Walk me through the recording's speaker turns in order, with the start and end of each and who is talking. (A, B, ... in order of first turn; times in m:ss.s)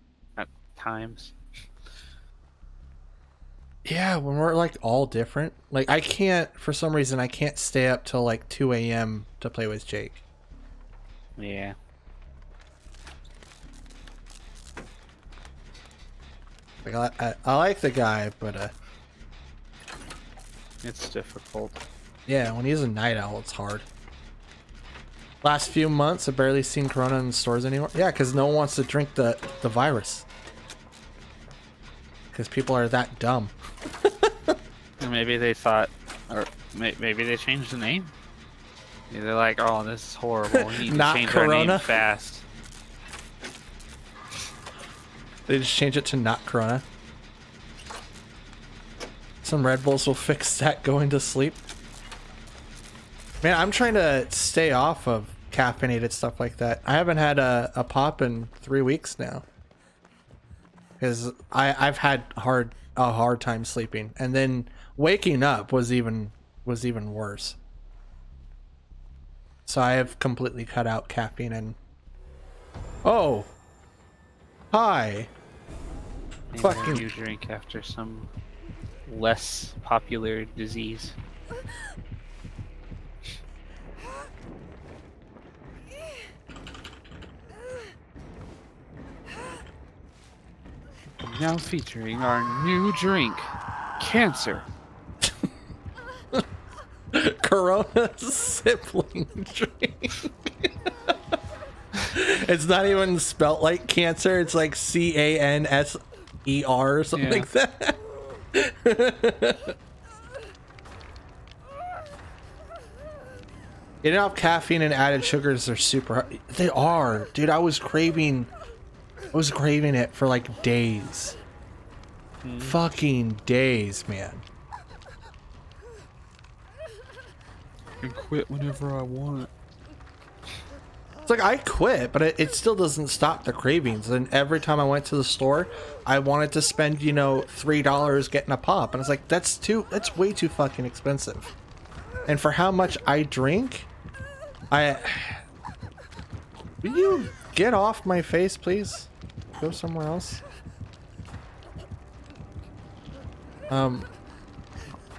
0:00.4-0:01.3 A
0:03.8-0:10.2 B
0:11.4-0:11.7 A
0:16.8-0:18.7 B
0:20.8-0:21.8 A
0:22.3-0:23.8 B
0:25.4-0:30.2 B
0:32.3-0:33.5 B
0:34.0-0:34.6 B
0:35.0-0:38.1 A
0:39.1-0:42.4 A
0:40.5-0:41.9 B
0:45.5-0:46.8 B
0:49.4-0:51.6 B
0:53.4-0:59.4 B
1:01.0-1:07.6 B
1:09.7-1:11.8 B
1:13.0-1:13.5 B
1:14.7-1:15.3 B
1:16.5-1:18.3 A
1:16.6-1:17.1 B
1:19.1-1:21.2 A
1:31.2-1:34.7 A
1:37.1-1:40.3 B
1:42.1-1:48.0 B
1:47.1-1:47.5 A
1:48.5-1:49.7 B
1:54.0-1:58.5 B
1:59.3-2:01.4 B
2:02.4-2:02.8 A
2:02.6-2:04.4 B
2:08.0-2:09.5 A
2:11.2-2:21.5 B
2:22.3-2:23.9 B
2:24.7-2:25.4 B
2:26.8-2:30.4 B
2:33.7-2:34.1 B